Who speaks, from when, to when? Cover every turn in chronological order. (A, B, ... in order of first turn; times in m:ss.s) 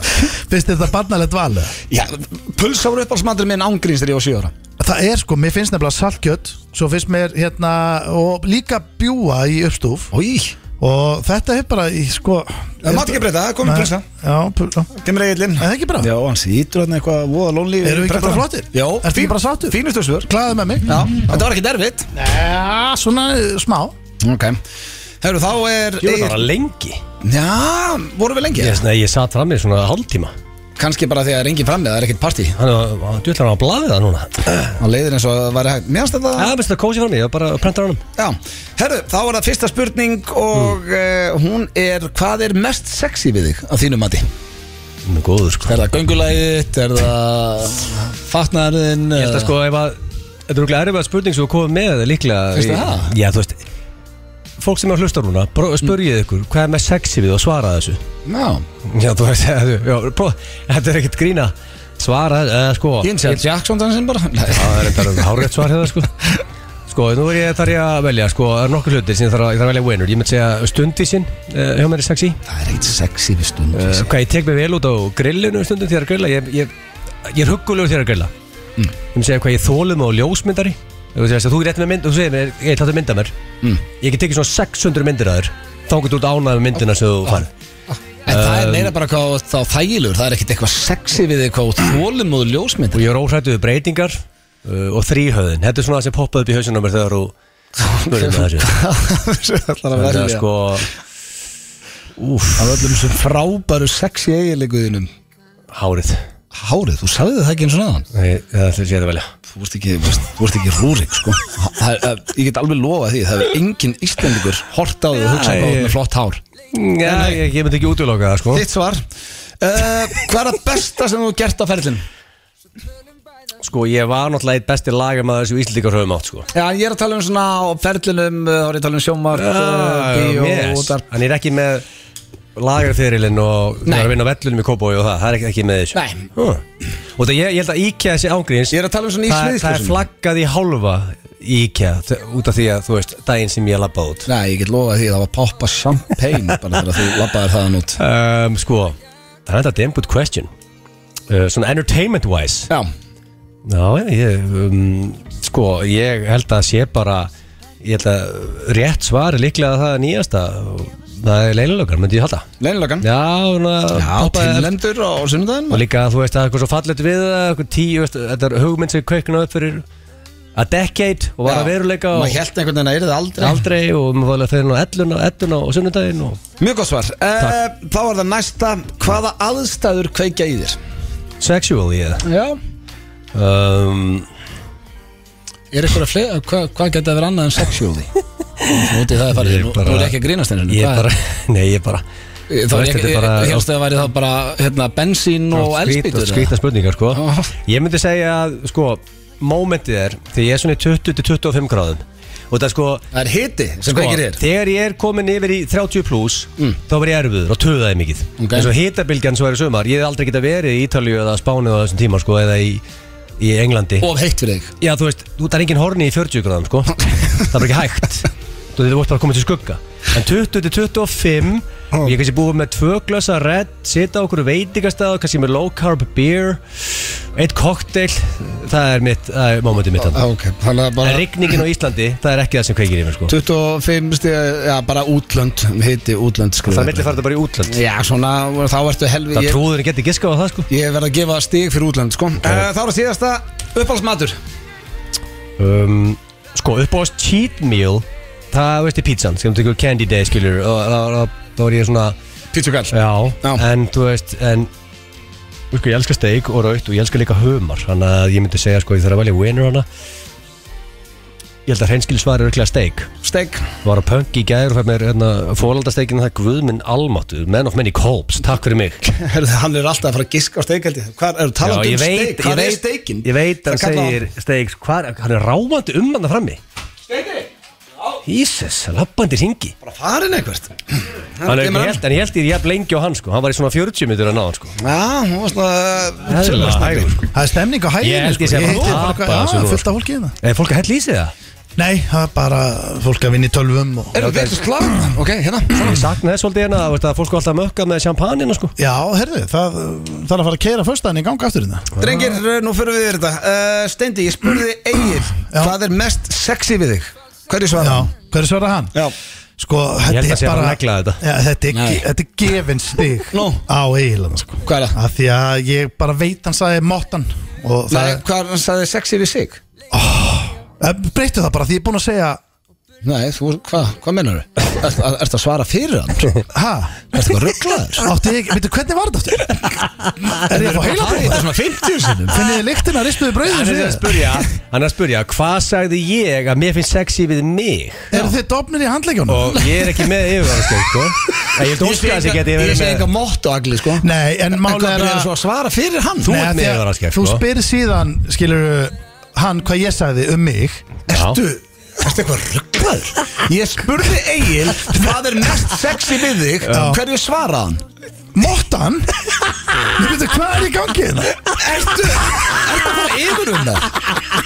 0:00.2-0:01.7 A
0:01.9-0:04.5 B
0:04.8-0:10.1 A
0:10.1-0:10.5 B
0:10.8-0:14.9 A
0:12.8-0:14.0 B
0:15.0-0:20.3 B
0:15.6-0:16.1 A
0:17.8-0:21.3 A
0:20.9-0:22.1 B
0:22.1-0:24.0 A
0:24.2-0:24.6 B
0:25.2-0:26.4 B
0:26.0-0:27.0 C
0:27.2-0:28.8 B
0:28.6-0:30.3 C
0:30.8-0:32.6 B
0:32.6-0:34.8 C
0:34.8-0:36.5 B
0:36.4-0:38.0 C
0:38.2-0:44.2 B
0:45.0-0:45.8 C
0:45.6-0:49.5 B
0:49.2-0:50.0 C
0:50.5-0:53.6 C
0:52.5-0:53.1 B
0:54.6-0:58.0 C
0:58.2-0:58.6 B
0:58.8-1:03.4 C
1:03.0-1:05.3 B
1:04.5-1:06.1 C
1:06.9-1:12.4 C
1:12.5-1:14.1 B
1:13.7-1:16.7 C
1:17.2-1:18.3 C
1:19.1-1:23.3 C
1:24.0-1:27.5 C
1:28.2-1:33.0 B
1:28.3-1:28.9 C
1:32.9-1:37.3 C
1:37.8-1:40.4 B
1:38.0-1:38.7 C
1:39.9-1:40.9 C
1:42.2-1:42.8 C
1:42.6-1:45.1 B
1:45.7-1:46.2 C
1:46.5-1:48.0 B
1:48.1-1:49.3 C
1:49.5-1:56.4 B
1:55.2-1:55.9 C
1:56.7-1:58.6 C
1:57.0-1:57.4 B
1:58.5-1:59.0 B
1:59.6-2:02.0 B
2:03.6-2:06.5 C
2:06.5-2:11.0 B
2:09.3-2:11.8 C
2:12.6-2:16.6 C
2:13.8-2:14.1 B
2:15.9-2:16.3 B
2:17.2-2:18.8 C
2:18.7-2:20.0 B
2:19.3-2:24.3 C
2:24.3-2:28.0 B
2:28.0-2:30.5 C
2:31.3-2:32.7 C
2:33.6-2:37.3 C
2:37.8-2:42.4 C
2:42.6-2:43.0 B
2:43.0-2:44.7 C
2:43.9-2:45.8 B
2:45.7-2:49.8 C
2:50.6-2:52.4 C
2:51.4-2:53.6 B
2:53.4-2:56.4 C
2:56.6-3:00.8 B
3:01.4-3:02.2 C
3:02.2-3:02.6 B
3:03.3-3:04.2 C
3:05.7-3:08.1 B
3:08.7-3:11.1 B
3:09.4-3:10.2 C
3:10.7-3:12.0 C
3:12.5-3:16.5 B
3:12.7-3:13.7 C
3:15.5-3:23.0 C
3:17.1-3:17.5 B
3:23.1-3:24.4 B
3:23.9-3:32.8 C
3:28.4-3:28.7 B
3:33.4-3:34.1 C
3:34.0-3:34.7 B
3:34.8-3:50.2 C
3:50.1-3:51.6 B
3:51.0-3:53.3 C
3:53.3-3:57.2 B
3:56.7-3:57.8 C
3:57.7-3:59.6 B
3:59.3-4:00.7 C
4:00.7-4:04.4 B
4:05.6-4:12.1 C
4:12.5-4:13.6 B
4:12.9-4:14.7 C
4:15.7-4:19.8 C
4:21.6-4:23.1 C
4:23.2-4:23.6 B
4:23.8-4:29.0 C
4:29.0-4:34.2 B
4:31.6-4:36.6 C
4:37.1-4:37.5 B
4:38.2-4:39.7 C
4:39.8-4:42.0 B
4:41.4-4:44.8 C
4:44.8-4:47.1 B
4:46.3-4:47.2 C
4:47.2-4:50.3 A
4:48.0-4:49.9 C
4:48.7-4:48.9 B
4:50.4-4:51.3 C
4:51.8-4:54.2 A
4:54.1-4:56.0 B
4:54.2-4:54.6 C
4:55.7-4:58.7 C
4:58.8-5:01.9 A
5:02.0-5:08.1 B
5:05.5-5:05.8 A
5:07.8-5:08.9 A
5:09.6-5:18.2 A
5:10.1-5:11.2 C
5:11.7-5:12.0 B
5:13.3-5:13.6 B
5:14.6-5:15.0 B
5:17.9-5:19.6 B
5:19.9-5:22.4 A
5:23.0-5:26.4 B
5:26.5-5:27.1 A
5:27.1-5:28.1 B
5:28.0-5:29.8 A
5:30.3-5:32.5 B
5:30.4-5:31.4 A
5:32.3-5:34.2 A
5:33.4-5:38.1 C
5:38.1-5:40.0 A
5:39.3-5:43.0 C
5:41.7-5:44.1 B
5:44.0-5:45.3 A
5:44.6-5:46.4 B
5:46.2-5:47.4 C
5:46.2-5:51.6 A
5:51.1-5:51.4 C
5:52.0-5:57.8 B
5:56.7-5:57.0 A
5:58.3-5:59.2 A
5:59.9-6:01.4 A
6:01.4-6:03.9 B